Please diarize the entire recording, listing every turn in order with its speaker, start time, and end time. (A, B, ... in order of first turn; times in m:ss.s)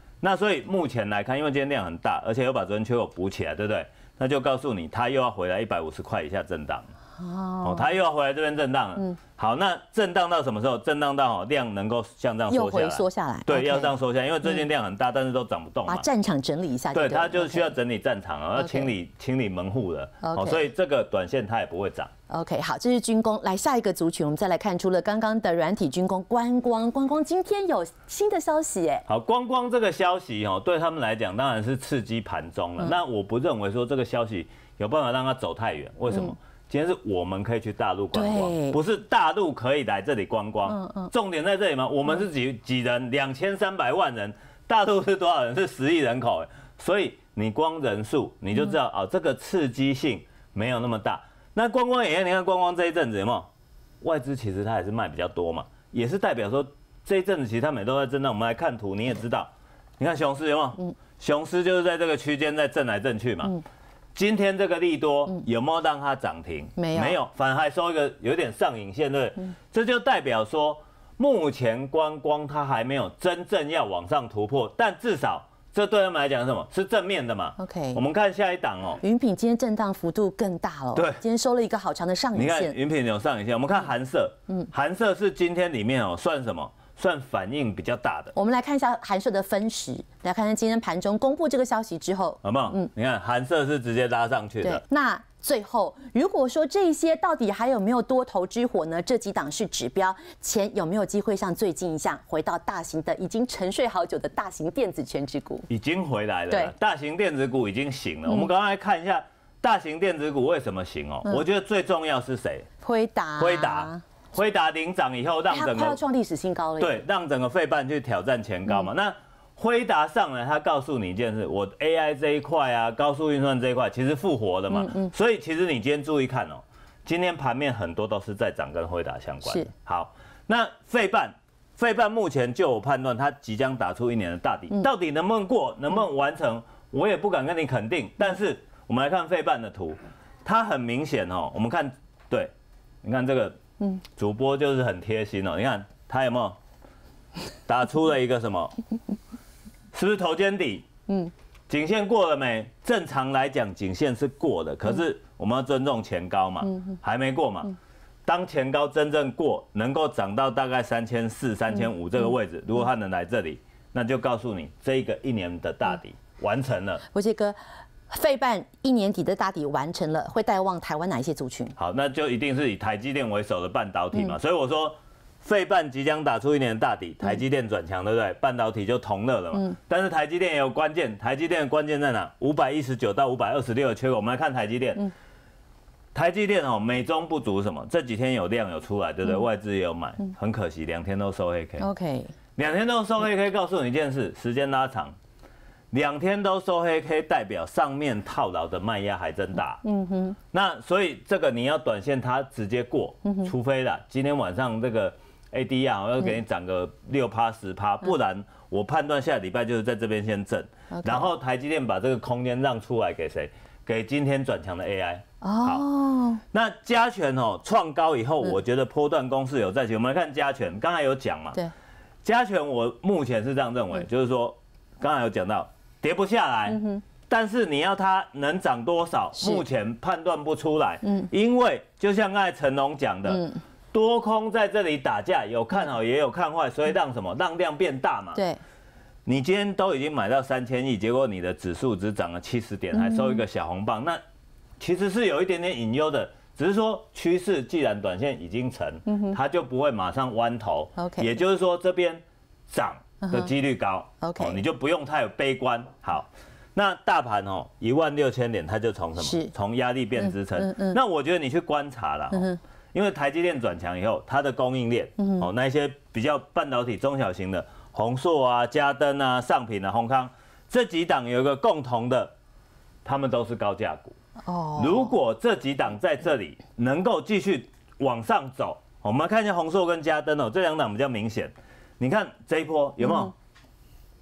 0:00.2-0:06.9 A
0:07.2-0:07.9 B
0:07.6-0:16.1 A
0:12.5-0:14.6 B
0:15.9-0:17.7 B
0:16.9-0:22.1 A
0:18.6-0:18.9 B
0:20.2-0:20.7 B
0:22.3-0:29.0 B
0:29.1-0:53.5 A
0:38.1-0:38.8 B
0:40.7-0:41.1 B
0:54.0-1:03.6 A
1:04.2-1:19.0 A
1:06.8-1:07.2 B
1:17.6-1:18.0 B
1:19.0-1:22.8 B
1:21.0-1:21.2 A
1:22.4-1:28.3 A
1:28.4-1:32.9 B
1:32.4-1:34.8 A
1:34.6-1:45.7 B
1:45.7-1:52.7 A
1:52.8-1:54.0 B
1:53.4-1:56.0 A
1:55.5-1:57.0 B
1:56.8-2:22.5 A
2:04.7-2:05.1 B
2:09.4-2:09.7 B
2:23.0-2:23.6 A
2:24.2-2:26.6 A
2:27.7-2:28.7 A
2:29.9-2:30.9 A
2:31.7-2:47.0 A
2:47.1-2:47.6 B
2:48.1-2:51.8 B
2:51.8-3:05.1 A
3:06.1-3:11.9 A
3:11.8-3:12.3 B
3:12.6-3:15.2 A
3:15.9-3:19.8 A
3:19.8-3:20.4 B
3:20.5-3:35.8 A
3:23.2-3:23.5 B
3:30.9-3:31.3 B
3:35.4-3:36.4 B
3:36.5-3:41.6 A
3:42.2-3:58.4 A
3:46.7-3:47.0 B
3:49.4-3:49.6 B
3:51.0-3:51.3 B
3:53.3-3:53.6 B
3:58.4-3:58.6 B
3:59.3-4:04.2 A
4:03.0-4:03.4 B
4:04.8-4:32.3 A
4:09.1-4:09.4 B
4:11.0-4:11.4 B
4:13.2-4:13.5 B
4:14.2-4:14.6 B
4:19.2-4:19.5 B
4:20.2-4:21.0 B
4:22.3-4:22.6 B
4:25.2-4:25.5 B
4:33.0-4:34.2 A
4:34.4-4:35.2 B
4:34.8-4:43.3 A
4:43.0-4:43.3 B